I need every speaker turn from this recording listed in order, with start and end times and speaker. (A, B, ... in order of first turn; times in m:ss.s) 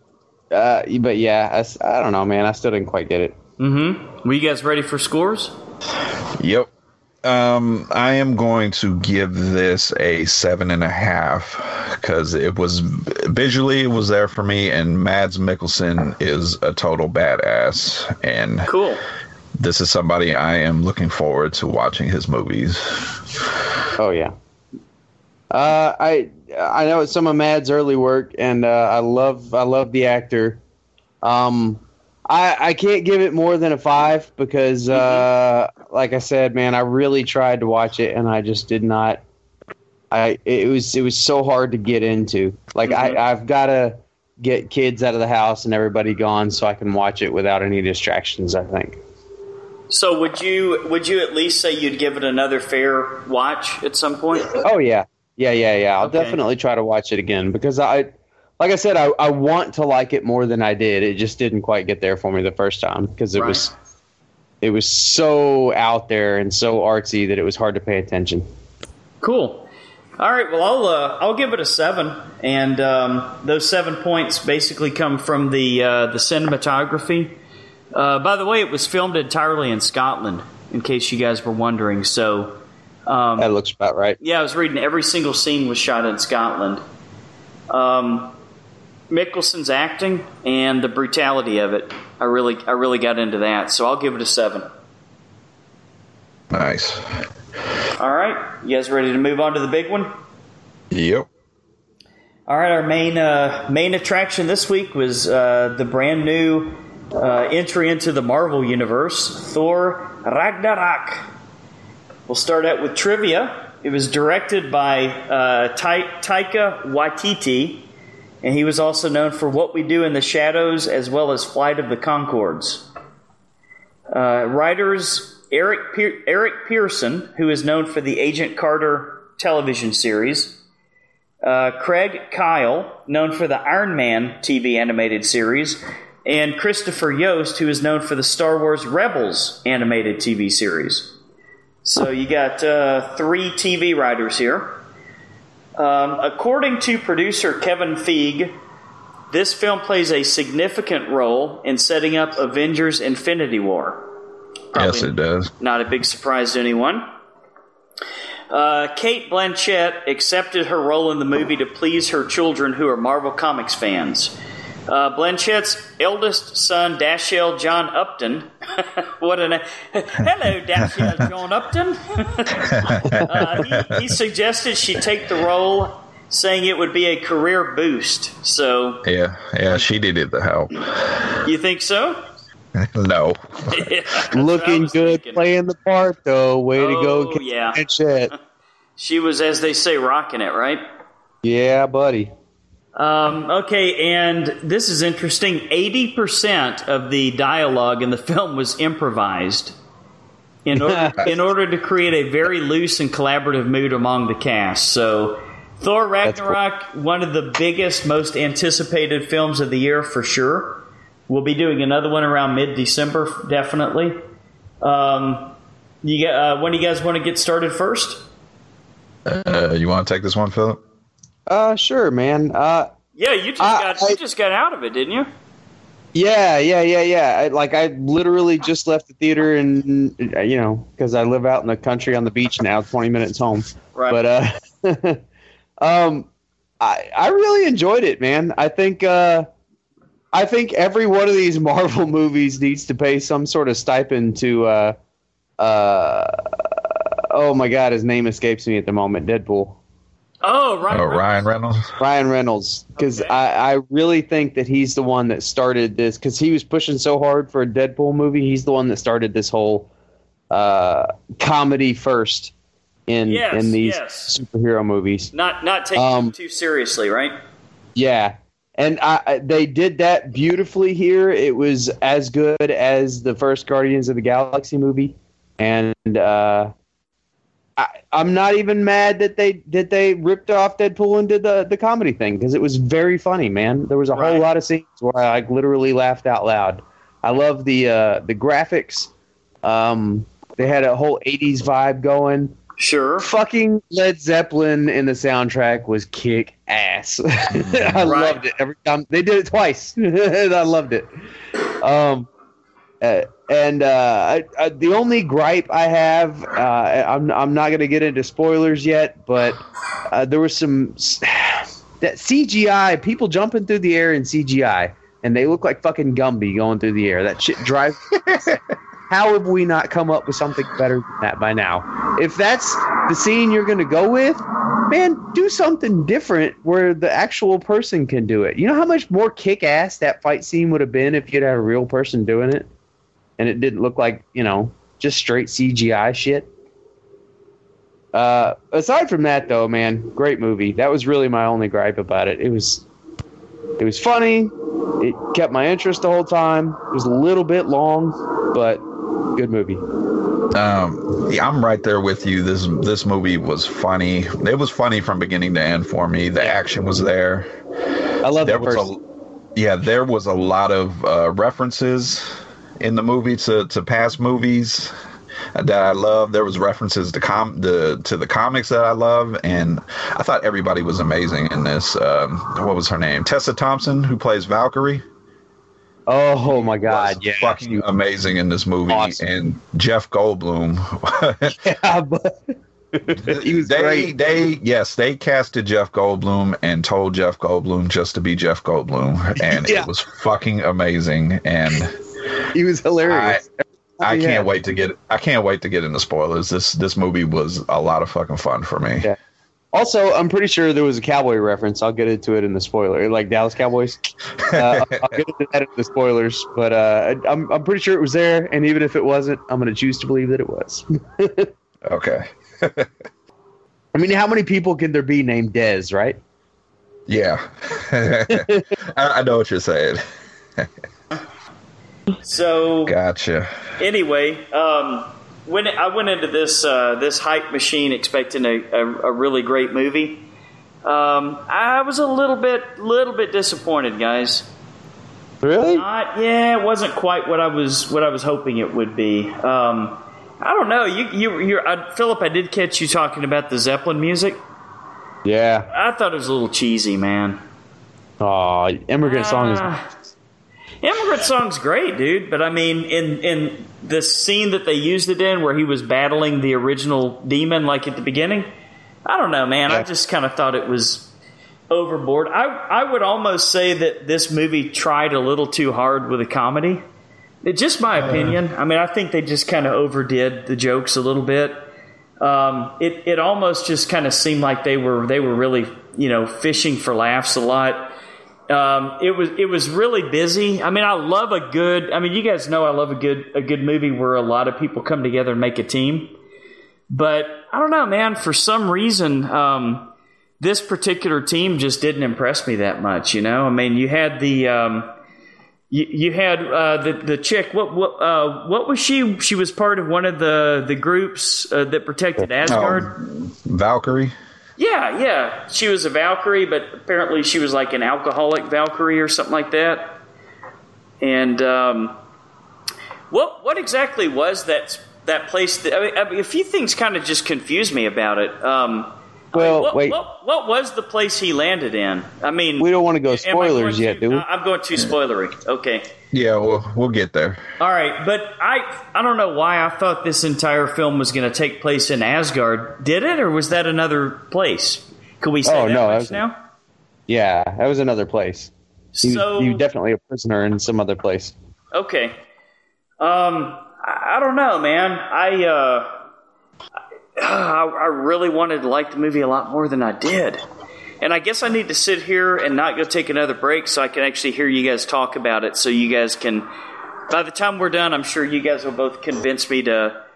0:00.5-0:03.4 A
0:03.6-0:05.5 B
0:06.4-0:06.7 C
0:07.2-0:18.7 C
0:18.7-0:19.0 B
0:19.6-0:23.2 C
0:24.0-0:24.3 A
0:25.5-0:30.6 A
0:31.2-0:39.2 A
0:34.9-0:35.3 B
0:40.1-0:49.0 A
0:42.9-0:43.2 B
0:49.9-0:54.6 B
0:54.6-1:03.7 A
0:56.0-0:56.4 B
1:03.4-1:03.7 B
1:04.6-1:08.4 A
1:09.2-1:09.7 B
1:10.2-1:17.3 B
1:17.9-1:23.5 B
1:23.4-1:24.2 A
1:24.2-1:26.8 B
1:27.7-1:28.4 B
1:29.1-1:34.7 B
1:36.5-1:37.2 C
1:38.0-1:40.1 B
1:40.9-1:41.3 C
1:42.5-1:51.3 B
1:52.3-1:57.9 B
1:58.4-2:02.9 B
2:04.1-2:10.6 B
2:11.4-2:21.1 B
2:21.8-2:24.8 B
2:25.8-2:28.6 B
2:29.3-2:34.1 B
2:34.7-2:37.1 B
2:34.7-2:35.5 C
2:38.5-2:44.3 B
2:44.9-2:59.0 B
2:52.7-2:53.8 C
2:59.0-3:01.2 C
3:01.4-3:02.2 B
3:02.8-3:03.9 C
3:03.7-3:05.4 B
3:04.3-3:08.3 A
3:06.8-3:07.8 B
3:09.0-3:10.8 B
3:11.4-3:12.3 A
3:13.0-3:19.8 B
3:20.6-3:34.2 B
3:20.7-3:21.3 A
3:26.2-3:26.6 A
3:34.8-3:38.2 B
3:39.2-3:40.8 C
3:41.5-3:42.9 A
3:43.2-3:45.3 B
3:43.6-3:44.2 A
3:46.2-3:55.2 A
3:55.8-3:56.3 A
3:56.8-3:59.5 A
4:00.3-4:05.0 A
4:05.6-4:06.4 A
4:07.3-4:09.8 A
4:10.4-4:11.3 B
4:10.9-4:11.9 C
4:12.0-4:19.9 A
4:13.0-4:13.4 B
4:20.5-4:22.5 A
4:23.1-4:25.3 A
4:23.3-4:24.3 B
4:25.3-4:27.4 B
4:26.0-4:26.3 A
4:28.0-4:36.7 A
4:37.8-4:49.1 A
4:44.1-4:44.4 B
4:49.6-4:52.6 A
4:52.8-4:53.3 B
4:53.2-5:01.1 A
4:57.5-4:58.1 C
4:58.0-4:58.4 B
5:01.8-5:02.3 A
5:03.0-5:32.7 A
5:33.4-5:36.5 A
5:38.1-5:42.8 A
5:43.8-5:48.8 A
5:49.4-5:49.8 A
5:50.5-5:57.5 C
5:58.2-5:58.9 A
5:58.4-5:59.0 C
5:59.6-6:04.9 C
6:05.6-6:15.0 C
6:16.1-6:17.8 A
6:16.5-6:21.6 C
6:18.9-6:19.2 A
6:21.5-6:24.1 A
6:23.2-6:32.0 C
6:29.4-6:29.9 A
6:32.5-6:34.5 A
6:33.1-6:33.4 C
6:34.0-6:39.1 C
6:39.7-6:51.5 A
6:44.4-6:45.2 C
6:51.9-6:52.9 C
6:53.9-6:56.2 A
6:57.1-7:00.0 C
6:58.3-6:58.6 A
7:02.2-7:03.0 B
7:02.9-7:03.5 C
7:03.8-7:10.3 B
7:10.8-7:14.5 B
7:15.4-7:15.8 A
7:15.6-7:24.4 B
7:25.2-7:25.7 A
7:25.7-7:27.4 B
7:28.2-7:29.7 A
7:29.0-7:29.8 B
7:30.8-7:38.5 B
7:39.1-7:41.1 B
7:41.7-7:46.8 B
7:47.4-7:51.7 B
7:52.2-7:57.9 B
7:58.5-8:06.1 B
8:06.9-8:14.9 B
8:15.7-8:22.9 B
8:22.4-8:24.1 C
8:24.6-8:30.0 B
8:31.0-8:32.0 B
8:33.1-8:45.9 B
8:39.3-8:40.0 A
8:42.6-8:44.2 A
8:46.1-8:47.4 C
8:47.6-8:56.4 B
8:55.4-8:56.2 A
8:57.1-8:58.5 A
8:58.9-8:59.6 B
8:59.0-9:01.3 A
9:01.7-9:02.2 B
9:03.0-9:05.9 B
9:07.2-9:10.4 B
9:11.0-9:16.5 B
9:17.1-9:20.0 B